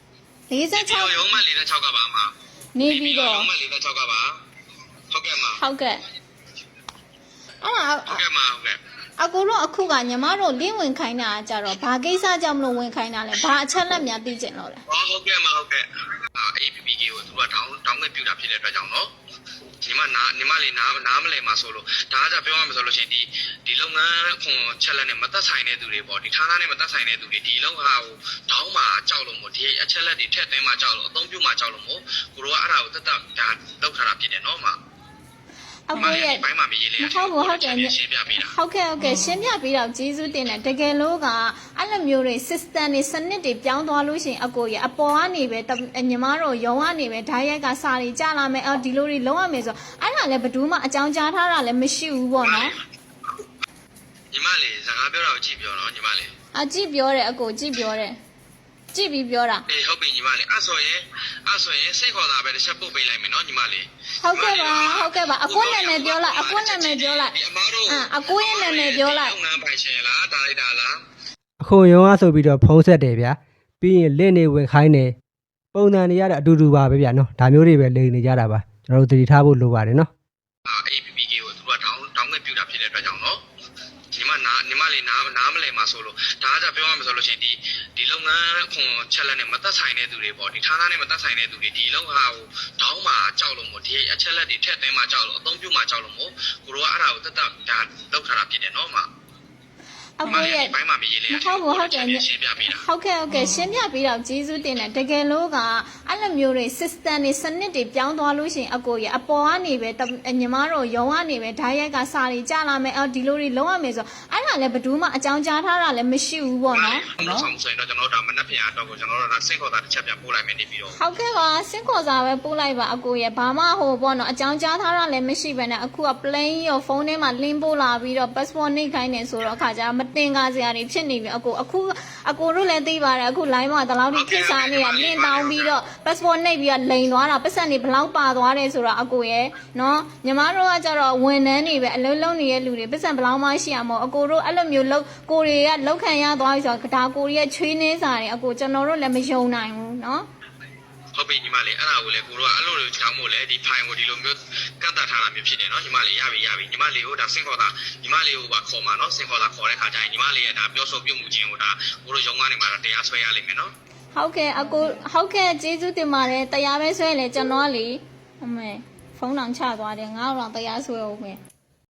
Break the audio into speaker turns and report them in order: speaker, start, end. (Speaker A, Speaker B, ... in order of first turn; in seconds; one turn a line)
Speaker A: 0.5-1.3
Speaker B: 0.7-2.3
Speaker A: 2.8-3.5
Speaker B: 2.8-4.3
Speaker B: 5.1-5.6
Speaker A: 5.6-6.0
Speaker A: 7.6-8.2
Speaker B: 8.1-8.8
Speaker A: 9.2-14.8
Speaker B: 14.9-19.1
Speaker B: 19.9-34.8
Speaker A: 35.9-36.4
Speaker B: 35.9-38.5
Speaker A: 37.0-52.7
Speaker B: 52.4-52.7
Speaker B: 54.3-56.3
Speaker A: 56.5-58.2
Speaker A: 58.9-59.6
Speaker B: 59.7-71.0
Speaker A: 64.2-67.3
Speaker A: 67.9-69.4
Speaker C: 71.6-75.1
Speaker C: 75.7-80.1
Speaker B: 80.7-83.4
Speaker B: 84.2-99.1
Speaker A: 100.2-100.7
Speaker B: 100.2-102.8
Speaker A: 101.3-117.4
Speaker B: 116.7-121.0
Speaker A: 121.0-150.3
Speaker B: 134.1-135.8
Speaker B: 151.2-163.7
Speaker A: 164.1-171.4